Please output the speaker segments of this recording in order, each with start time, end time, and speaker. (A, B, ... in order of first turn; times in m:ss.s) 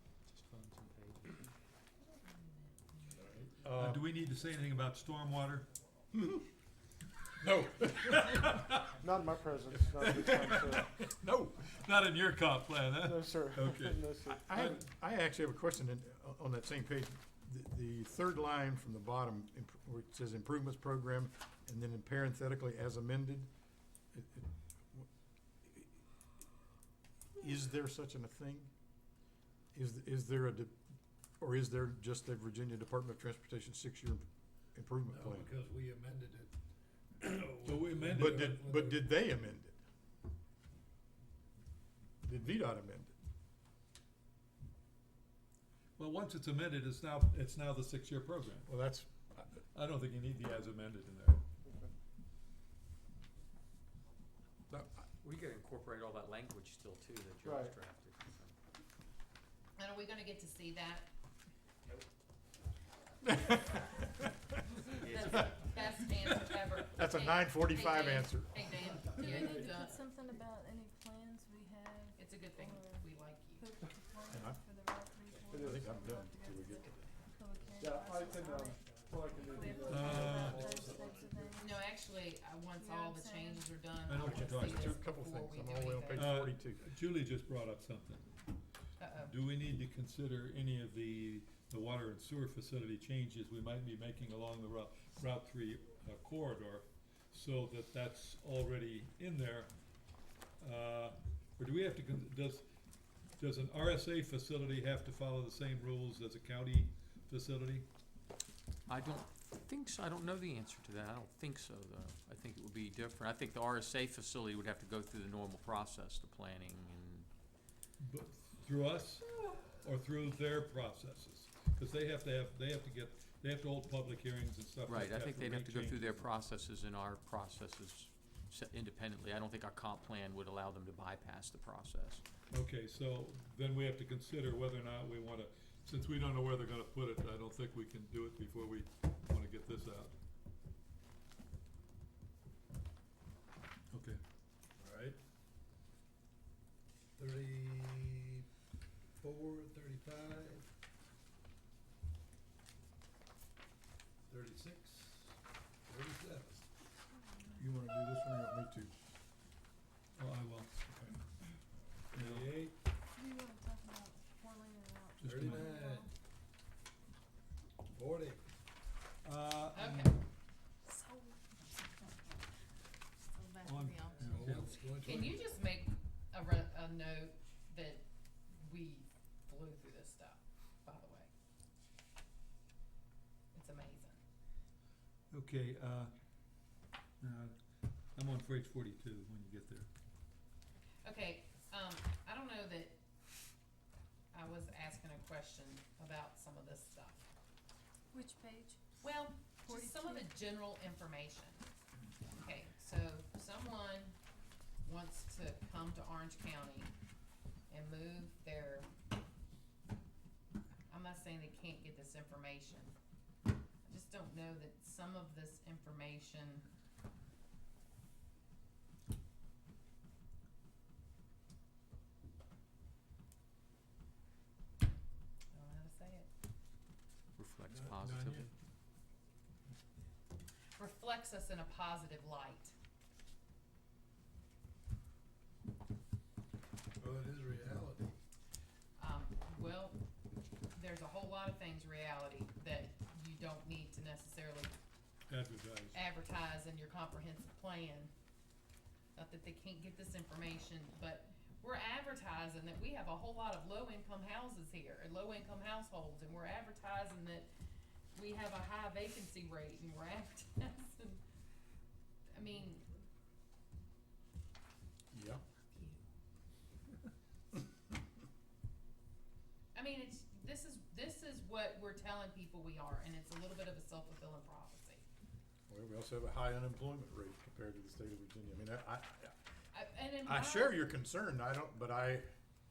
0:00.3-0:01.4 A
0:02.0-0:03.7 B
0:03.5-0:04.1 C
0:03.7-0:05.7 D
0:06.1-0:06.4 C
0:07.4-0:08.6 C
0:08.2-0:09.0 D
0:09.0-0:11.0 E
0:09.9-0:11.6 C
0:10.2-0:14.8 D
0:13.0-0:14.6 E
0:14.3-0:23.5 C
0:24.1-0:25.1 C
0:27.4-0:28.7 C
0:29.7-0:30.8 C
0:31.4-0:35.5 C
0:35.1-0:36.5 F
0:37.2-0:39.1 F
0:37.6-0:38.6 D
0:38.1-0:39.8 C
0:42.2-0:43.1 C
0:46.0-0:48.7 D
0:48.7-0:49.5 C
0:49.7-0:51.4 D
0:51.6-0:51.9 E
0:54.7-0:55.0 C
0:55.2-0:58.6 A
0:57.4-0:57.8 E
0:59.8-1:01.1 B
1:03.3-1:04.2 C
1:05.0-1:05.6 A
1:05.1-1:10.0 B
1:06.4-1:08.7 C
1:09.1-1:21.9 G
1:12.2-1:13.7 B
1:14.3-1:14.6 C
1:15.5-1:15.9 E
1:15.5-1:16.9 C
1:17.8-1:21.6 E
1:19.9-1:20.8 D
1:20.8-1:21.0 F
1:21.6-1:26.5 B
1:22.7-1:23.7 G
1:24.1-1:25.0 D
1:24.2-1:26.8 C
1:26.1-1:28.4 D
1:29.0-1:29.4 B
1:29.3-1:39.7 D
1:40.6-1:42.6 D
1:43.4-1:47.9 D
1:48.9-1:57.3 A
1:58.0-2:06.3 D
1:59.3-1:59.8 B
2:04.9-2:12.2 A
2:12.5-2:20.1 D
2:23.9-2:24.2 D
2:24.8-2:25.2 F
2:27.2-2:28.5 F
2:29.2-2:30.6 F
2:34.3-2:35.4 F
2:35.9-2:36.6 F
2:37.1-2:37.6 G
2:37.6-2:38.9 C
2:40.2-2:40.7 D
2:40.9-2:41.1 C
2:42.1-2:42.7 F
2:42.1-2:42.7 D
2:43.1-2:46.1 G
2:45.2-2:45.8 D
2:45.2-2:46.1 F
2:47.9-2:48.4 F
2:49.2-2:50.1 D
2:49.7-2:50.2 B
2:50.9-2:52.4 G
2:53.2-2:54.2 G
2:53.6-2:54.9 D
2:54.1-2:55.5 F
2:55.0-2:58.0 B
2:58.6-3:01.3 B
3:03.5-3:04.2 B
3:05.3-3:06.1 D
3:07.2-3:07.6 D
3:08.2-3:09.9 D
3:11.0-3:13.0 B
3:14.3-3:17.3 B
3:18.1-3:19.0 G
3:19.0-3:21.7 B
3:19.6-3:20.3 G
3:22.3-3:24.2 B
3:24.8-3:26.9 B
3:27.7-3:28.9 B
3:30.9-3:32.9 B
3:33.8-3:36.7 B
3:45.5-3:46.3 B
3:47.4-3:48.5 A
3:47.7-3:48.5 F
3:50.8-3:52.7 B
3:57.0-3:58.2 F
3:59.0-4:00.0 B
4:00.7-4:04.8 B
4:05.3-4:06.0 D
4:05.9-4:08.1 B
4:09.2-4:17.5 B
4:18.1-4:21.2 B
4:22.3-4:22.9 B
4:25.1-4:25.4 C
4:25.7-4:26.0 B
4:29.7-4:35.0 B
4:35.7-4:39.3 C
4:39.7-4:40.9 B
4:40.3-4:42.3 C